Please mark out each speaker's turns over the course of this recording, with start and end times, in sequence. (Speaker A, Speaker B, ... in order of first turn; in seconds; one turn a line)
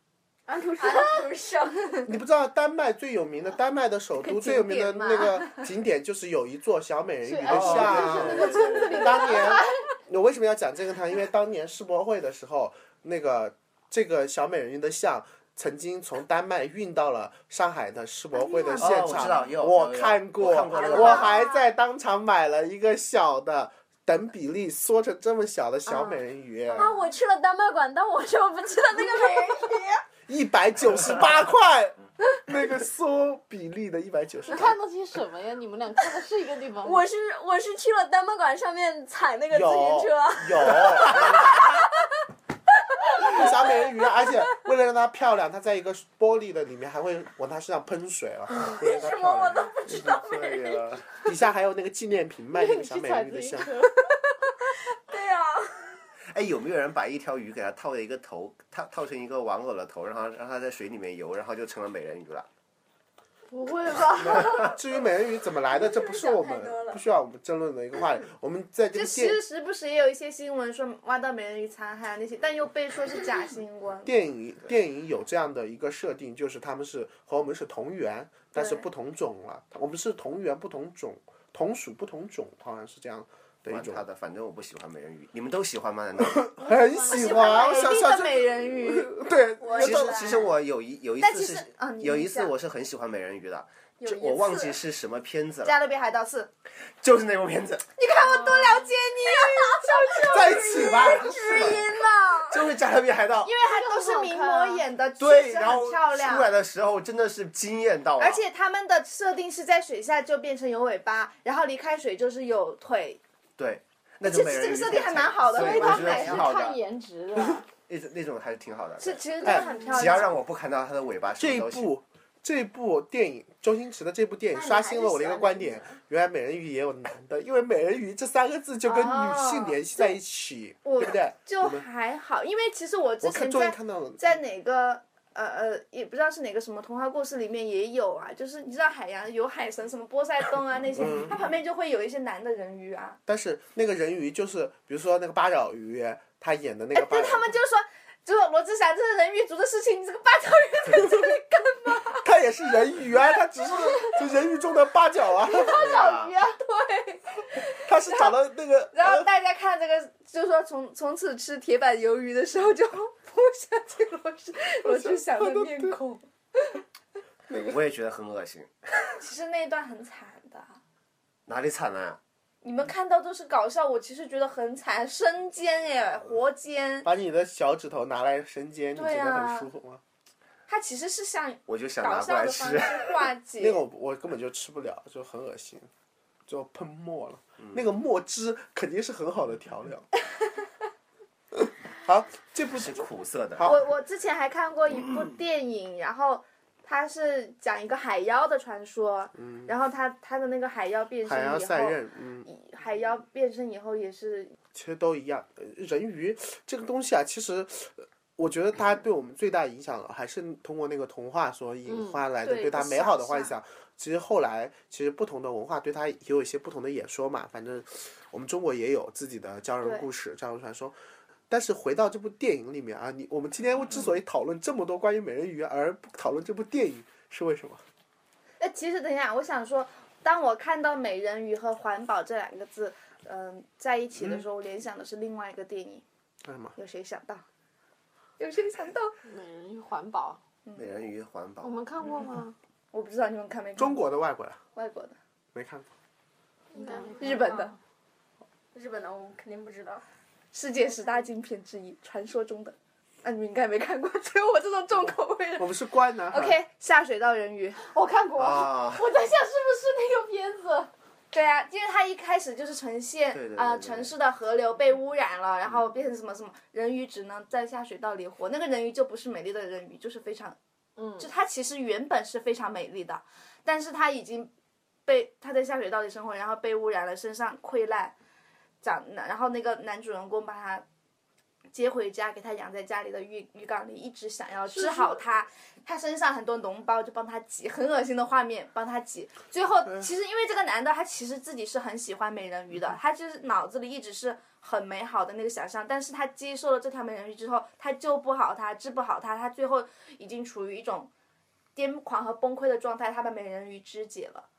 Speaker A: 0.5-1.3
Speaker B: 0.8-2.0
Speaker C: 2.0-26.9
Speaker D: 4.2-5.7
Speaker A: 7.2-9.9
Speaker E: 7.5-9.2
Speaker D: 18.3-19.5
Speaker E: 18.8-21.3
Speaker B: 20.7-21.5
Speaker D: 20.8-21.4
Speaker B: 26.7-30.0
Speaker A: 26.8-27.0
Speaker A: 29.1-29.4
Speaker C: 30.3-34.7
Speaker A: 34.5-37.0
Speaker B: 36.8-41.8
Speaker C: 39.5-41.5
Speaker C: 43.2-49.9
Speaker B: 43.2-43.9
Speaker B: 48.6-50.8
Speaker E: 49.8-51.1
Speaker C: 51.2-53.7
Speaker A: 52.5-54.1
Speaker B: 54.9-56.0
Speaker E: 56.3-62.5
Speaker A: 63.5-64.8
Speaker C: 64.2-69.4
Speaker B: 65.7-67.0
Speaker D: 68.9-74.1
Speaker C: 74.0-84.0
Speaker D: 78.5-78.8
Speaker E: 83.7-86.4
Speaker C: 86.2-90.4
Speaker A: 86.6-87.9
Speaker D: 87.1-89.2
Speaker B: 89.6-90.5
Speaker E: 89.7-95.7
Speaker D: 91.2-92.5
Speaker B: 94.0-94.8
Speaker D: 95.6-96.5
Speaker E: 97.0-97.8
Speaker D: 98.0-100.9
Speaker B: 99.2-102.7
Speaker C: 100.3-101.8
Speaker E: 101.5-101.8
Speaker E: 102.5-103.5
Speaker D: 103.5-106.5
Speaker A: 103.6-104.8
Speaker E: 105.2-108.4
Speaker D: 108.2-113.2
Speaker E: 113.6-116.8
Speaker D: 114.2-116.5
Speaker A: 115.5-117.7
Speaker E: 117.9-121.9
Speaker D: 119.0-120.3
Speaker C: 121.4-131.8
Speaker B: 124.5-125.8
Speaker D: 128.8-130.2
Speaker D: 130.8-143.2
Speaker C: 133.2-134.2
Speaker C: 140.9-141.4
Speaker C: 143.2-147.4
Speaker D: 146.9-152.2
Speaker C: 150.9-151.3
Speaker C: 152.2-155.8
Speaker D: 155.5-158.3
Speaker E: 155.7-156.3
Speaker A: 155.8-156.3
Speaker C: 157.7-159.3
Speaker D: 158.9-166.8
Speaker C: 164.8-165.9
Speaker C: 167.5-167.8
Speaker E: 167.7-168.7
Speaker D: 169.2-170.7
Speaker E: 171.5-172.2
Speaker D: 172.6-177.1
Speaker C: 177.0-180.0
Speaker D: 178.9-179.7
Speaker D: 180.7-183.8
Speaker E: 181.7-183.2
Speaker C: 183.6-185.9
Speaker C: 186.5-190.1
Speaker C: 191.6-193.0
Speaker E: 192.7-193.7
Speaker D: 193.6-204.5
Speaker C: 199.4-199.7
Speaker C: 201.2-202.5
Speaker C: 204.7-220.9
Speaker A: 211.9-212.2
Speaker D: 212.4-213.5
Speaker D: 219.8-220.1
Speaker C: 221.5-227.8
Speaker D: 228.6-236.0
Speaker C: 236.4-236.7
Speaker D: 236.8-237.4
Speaker D: 238.4-239.1
Speaker A: 239.2-240.4
Speaker D: 240.6-240.9
Speaker E: 240.8-241.7
Speaker A: 241.6-242.6
Speaker D: 242.9-244.0
Speaker C: 243.8-244.6
Speaker D: 244.7-245.2
Speaker C: 245.5-245.9
Speaker A: 246.7-247.7
Speaker B: 246.8-247.6
Speaker D: 247.2-247.7
Speaker B: 248.7-250.0
Speaker D: 250.5-257.9
Speaker C: 255.6-256.6
Speaker A: 257.8-260.9
Speaker E: 258.4-259.1
Speaker D: 261.3-270.6
Speaker E: 263.3-264.1
Speaker A: 271.0-271.3
Speaker D: 271.2-274.5
Speaker D: 275.1-278.1
Speaker D: 278.8-280.8
Speaker D: 281.7-301.1
Speaker A: 284.7-285.2
Speaker D: 301.8-304.4